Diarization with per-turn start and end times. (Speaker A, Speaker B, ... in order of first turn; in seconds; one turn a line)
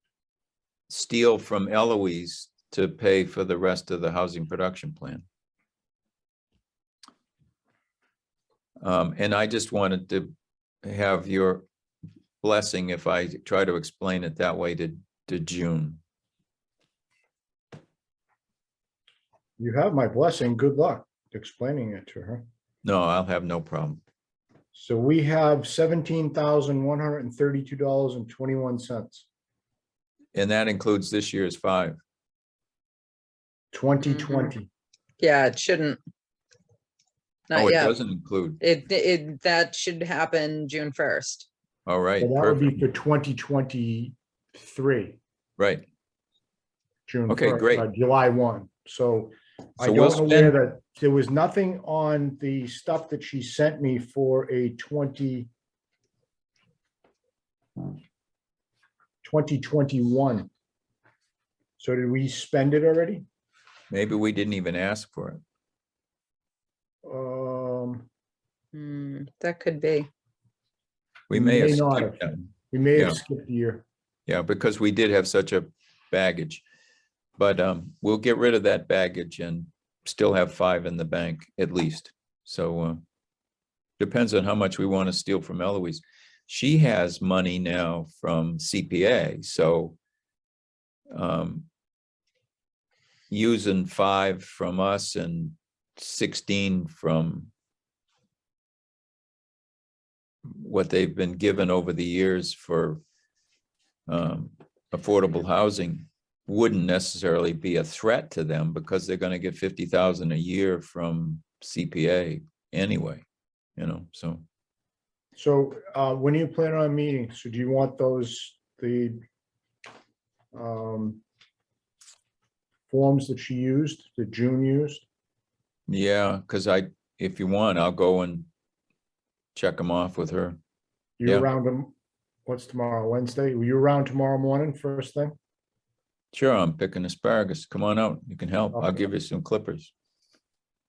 Speaker A: 0.9-5.2
Speaker A: 8.8-10.3
Speaker A: 10.8-11.7
Speaker A: 12.4-16.0
Speaker B: 19.6-22.4
Speaker A: 22.8-24.0
Speaker B: 24.7-29.2
Speaker A: 30.3-32.0
Speaker B: 33.7-34.7
Speaker C: 34.0-34.5
Speaker C: 35.2-36.0
Speaker C: 37.5-37.9
Speaker A: 37.5-38.6
Speaker C: 38.6-41.5
Speaker A: 41.9-42.8
Speaker B: 42.2-45.2
Speaker A: 45.6-45.9
Speaker B: 47.1-55.5
Speaker A: 47.3-47.9
Speaker A: 49.8-50.6
Speaker B: 59.2-60.5
Speaker B: 61.8-63.2
Speaker A: 63.9-65.4
Speaker B: 67.0-68.1
Speaker C: 68.7-70.1
Speaker A: 71.3-72.4
Speaker B: 71.3-73.8
Speaker A: 72.9-73.2
Speaker A: 74.3-76.6
Speaker A: 77.4-83.0
Speaker A: 84.0-90.0
Speaker A: 91.1-91.7
Speaker A: 93.3-97.5
Speaker A: 100.5-103.0
Speaker A: 104.1-113.2
Speaker A: 113.8-114.4
Speaker B: 115.3-119.2
Speaker B: 120.5-121.2
Speaker B: 122.9-125.0
Speaker A: 125.9-128.5
Speaker A: 129.5-130.6
Speaker B: 131.2-131.9
Speaker B: 132.5-135.3
Speaker A: 136.3-139.9
Speaker B: 138.7-139.1